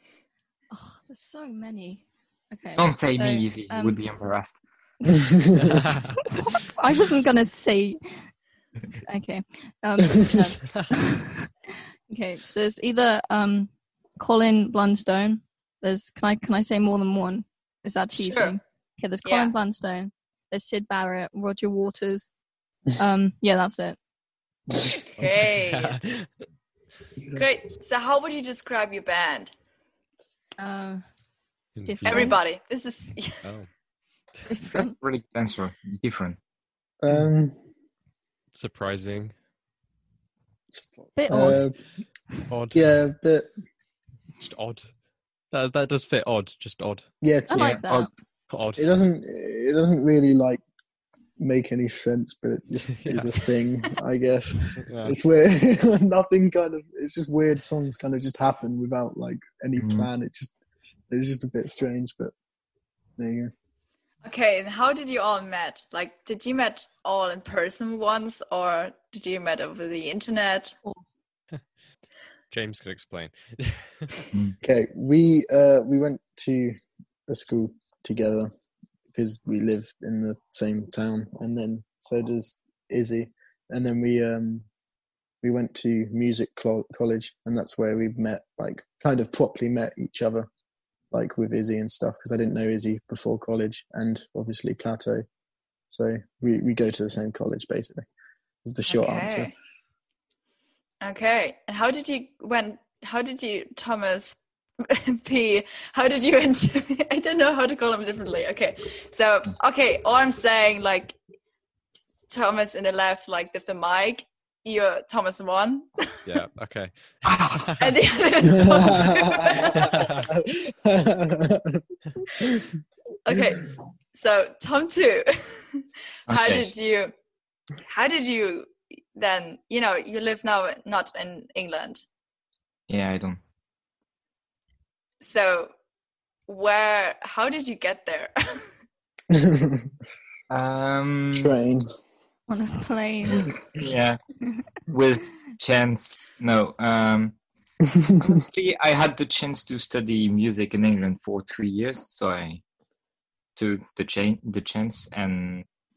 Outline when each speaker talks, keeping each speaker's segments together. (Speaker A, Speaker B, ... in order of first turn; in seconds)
Speaker A: 0.7-4.0, 6.2-8.0, 9.0-11.5, 12.1-22.3, 22.9-24.0, 30.6-31.0, 31.8-32.4, 34.5-34.9, 41.2-41.6, 47.5-48.1, 142.5-143.5
Speaker B: 2.8-4.6, 34.7-36.4, 59.8-60.1, 117.2-117.7, 126.3-126.7, 132.9-133.4, 140.5-141.6, 143.7-144.2, 144.9-147.4, 148.2-152.6, 153.6-155.7
Speaker C: 5.6-6.1, 25.2-26.3, 31.8-32.4, 33.4-33.7, 38.5-39.3, 42.5-42.9, 44.4-44.9, 45.5-47.1, 47.9-48.9, 53.0-53.3, 54.8-55.2, 72.5-74.3, 116.2-118.0, 119.7-120.3
Speaker D: 18.2-18.6, 19.2-19.5, 25.1-26.0, 27.3-29.5, 32.0-33.5, 64.2-70.7, 98.9-99.5, 101.0-111.2, 112.3-116.2, 117.8-120.1, 123.2-127.1, 127.8-132.0, 135.2-135.7, 136.5-138.7
Speaker E: 37.0-37.5, 40.7-41.8, 42.7-43.5, 47.2-47.8, 48.8-50.6, 51.4-60.5, 61.1-62.3, 63.2-63.5, 74.6-78.5, 79.1-84.7, 85.4-90.5, 91.1-95.2, 95.9-98.0, 98.6-99.5, 118.4-121.8, 122.4-122.7, 139.3-139.9, 141.3-142.0, 147.9-148.3